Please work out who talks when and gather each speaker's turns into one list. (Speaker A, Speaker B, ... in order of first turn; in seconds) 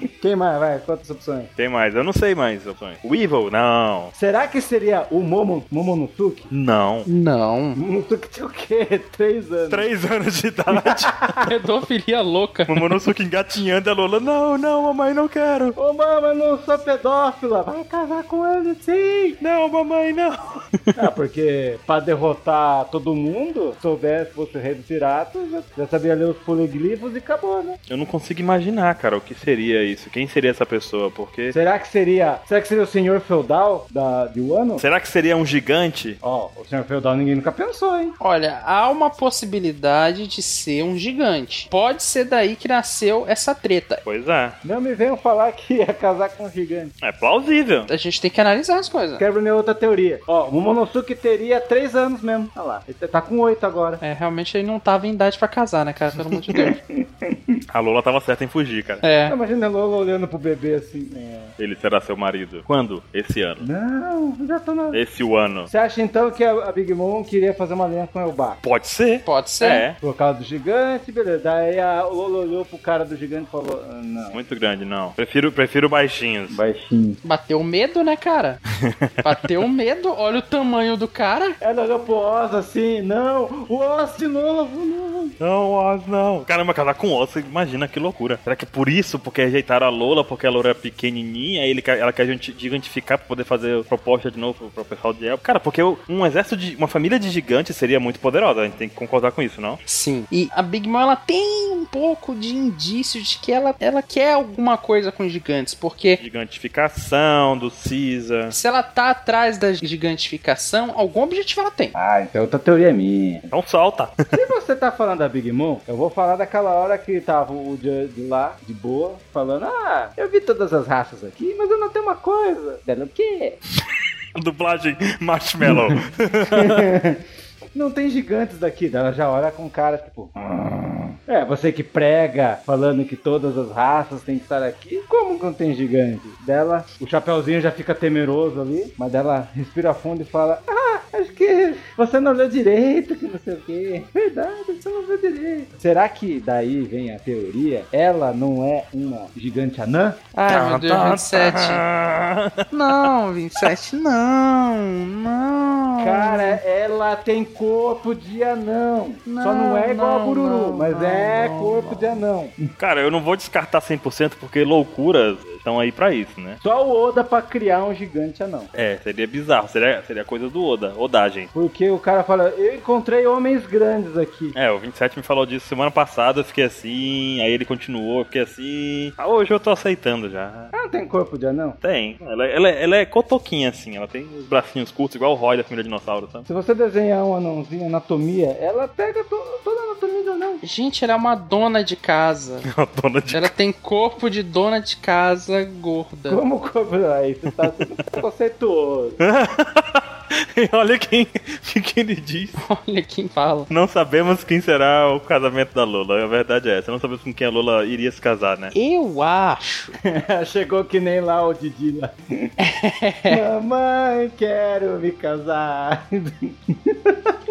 Speaker A: 0.2-1.5, 4.1-6.5, 7.8-9.9, 10.7-11.5, 15.7-19.4, 20.9-27.8, 31.5-34.8, 36.2-38.1, 44.6-46.9, 49.2-54.0, 56.5-57.6, 59.3-61.5, 63.6-65.0, 65.7-68.6, 70.0-74.4, 76.5-77.2, 81.6-85.3, 111.9-113.5, 114.3-123.6, 125.6-126.0, 126.5-127.2, 127.7-150.2, 156.0-162.6, 166.6-168.7, 171.5-174.5, 180.7-181.8, 186.5-190.6, 196.3-199.2, 210.0-212.2, 213.3-217.3
Speaker B: 1.6-4.1, 6.5-7.1, 9.7-11.4, 12.7-15.7, 19.4-21.0, 27.9-31.6, 34.8-36.2, 44.0-44.6, 47.0-47.9, 57.7-59.0, 61.6-63.6, 64.9-65.7, 68.6-70.0, 74.3-76.6, 78.8-79.3, 85.4-99.8, 106.2-108.5, 113.5-114.3, 124.3-126.8, 150.5-152.7, 162.8-166.6, 168.7-171.5, 174.5-180.7, 181.8-186.5, 192.6-193.5, 199.2-202.6, 203.7-208.7
Speaker C: 7.0-7.8, 11.4-12.9, 38.2-44.0, 47.9-49.2, 54.0-56.8, 59.0-59.4, 69.2-69.8, 77.2-78.6, 79.2-81.5, 99.9-106.2, 108.5-111.9, 150.3-151.8, 152.7-156.6, 159.2-162.1, 190.6-192.7, 193.3-196.4, 202.6-203.7, 208.7-209.9, 212.6-213.4